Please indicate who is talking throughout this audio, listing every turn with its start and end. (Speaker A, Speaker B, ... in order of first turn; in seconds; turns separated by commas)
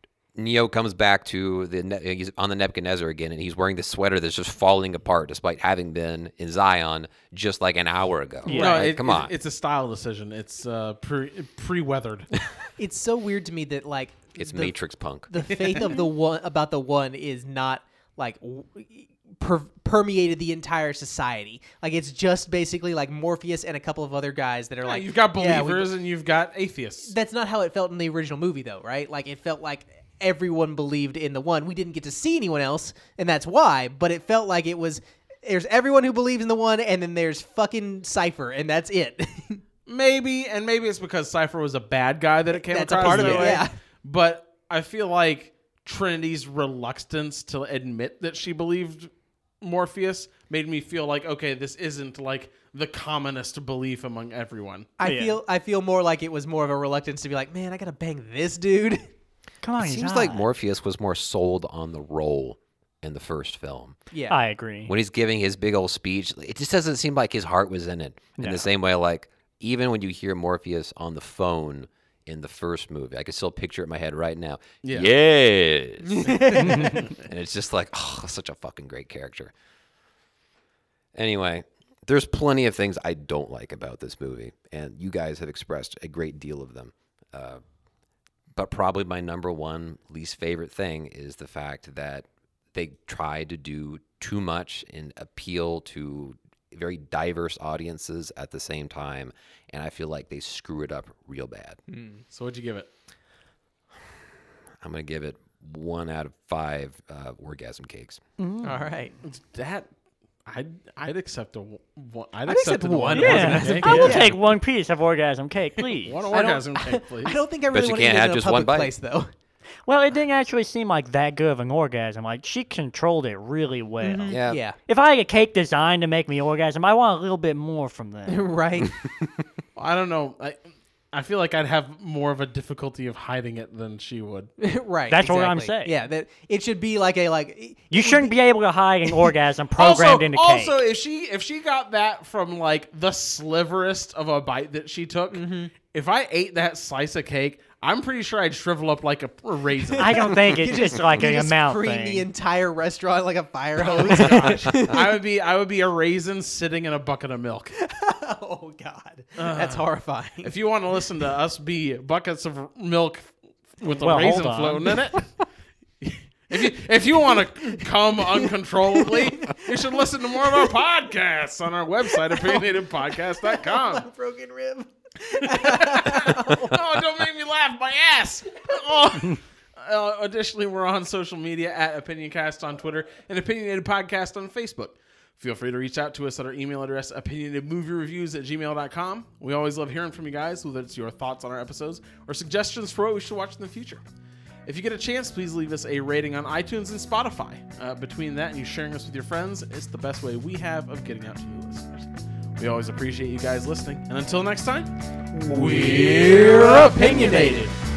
Speaker A: 0.3-9.3, Speaker B: 8.4-8.9, Speaker C: 8.5-12.3, Speaker D: 12.8-25.9, Speaker A: 14.4-15.9, Speaker C: 24.8-27.1, Speaker D: 27.0-39.6, Speaker C: 39.9-54.9, Speaker D: 42.5-43.7, Speaker B: 43.0-43.6, Speaker D: 55.0-59.1, Speaker B: 55.0-55.4, Speaker B: 59.6-60.4, Speaker A: 59.8-64.0, Speaker D: 64.1-64.4, Speaker B: 64.3-64.9, Speaker A: 64.9-79.5, Speaker B: 68.4-68.7, Speaker C: 74.8-75.1, Speaker D: 76.1-77.1, Speaker B: 76.6-77.0, Speaker C: 76.7-77.0, Speaker A: 81.2-87.6, Speaker A: 88.5-101.8, Speaker D: 101.9-102.2, Speaker C: 102.3-102.9, Speaker A: 104.8-108.2, Speaker B: 108.4-108.9, Speaker D: 108.6-109.2, Speaker C: 109.2-109.9, Speaker C: 110.5-114.3, Speaker D: 112.5-114.3, Speaker B: 113.1-116.2, Speaker C: 116.0-117.4, Speaker D: 116.3-119.3, Speaker A: 117.7-118.9, Speaker B: 119.9-128.5, Speaker D: 124.0-124.8, Speaker A: 124.3-124.6, Speaker D: 128.3-129.0, Speaker C: 129.8-134.5, Speaker D: 134.6-138.3, Speaker B: 135.1-136.0, Speaker B: 137.9-140.8, Speaker D: 139.1-139.3, Speaker C: 139.8-150.3, Speaker D: 145.3-145.7, Speaker D: 149.8-155.2, Speaker B: 150.0-152.3, Speaker C: 153.8-157.7, Speaker D: 157.8-160.5, Speaker C: 159.4-159.9, Speaker C: 160.4-165.3, Speaker B: 164.0-165.0, Speaker C: 166.0-174.1, Speaker D: 167.3-170.7, Speaker D: 172.2-172.7, Speaker D: 173.4-176.8, Speaker C: 175.4-194.0, Speaker C: 194.7-204.9, Speaker C: 205.5-207.8, Speaker D: 206.8-207.7